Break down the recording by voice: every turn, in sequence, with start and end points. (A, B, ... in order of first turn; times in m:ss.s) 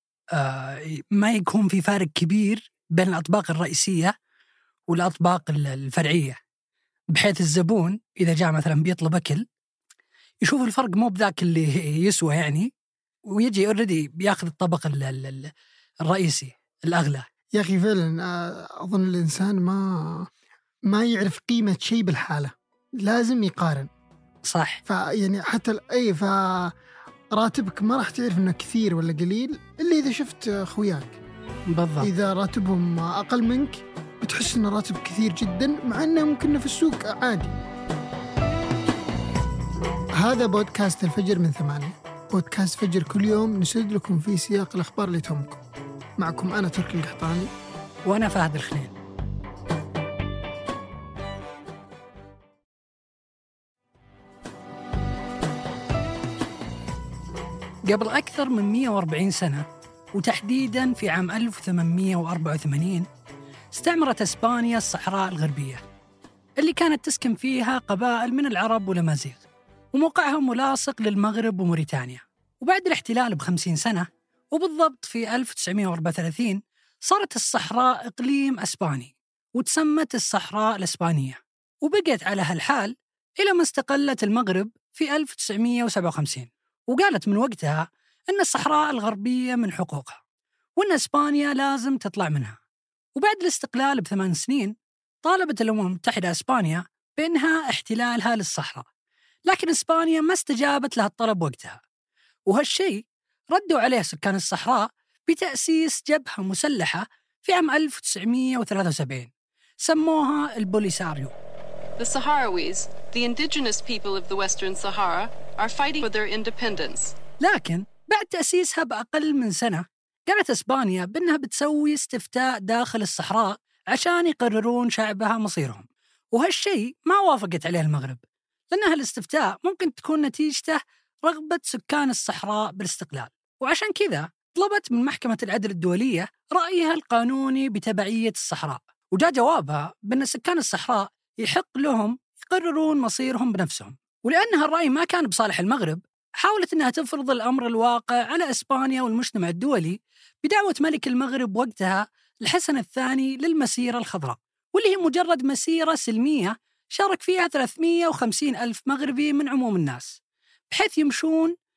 0:00.3-0:04.1 A
0:04.9-0:06.4 A
0:07.1-0:09.4 A
0:10.4-0:12.7 A
0:13.3-0:15.5 A
0:16.1-0:17.2 A
0:17.5-0:20.3 B
0:20.9-0:23.9 B
0:24.4-0:24.8 A
0:24.8-0:26.7 B
0:27.3-0:31.2 B
0:31.7-0:32.1 A
0:32.0-0:37.6 B
0:40.2-0:45.6 B
0:46.2-0:47.5 B
0:48.0-0:48.9 A
0:57.9-1:03.0 A
1:03.7-1:05.8 A
1:06.6-1:30.2 A
1:30.8-1:32.6 A
1:33.2-1:38.8 A
1:39.5-1:41.8 A
1:42.5-1:49.3 A
1:49.8-1:51.3 A
1:52.0-1:53.8 C
1:54.3-1:56.1 C
1:56.7-1:57.1 C
1:57.4-2:40.2 A
2:40.7-2:41.5 A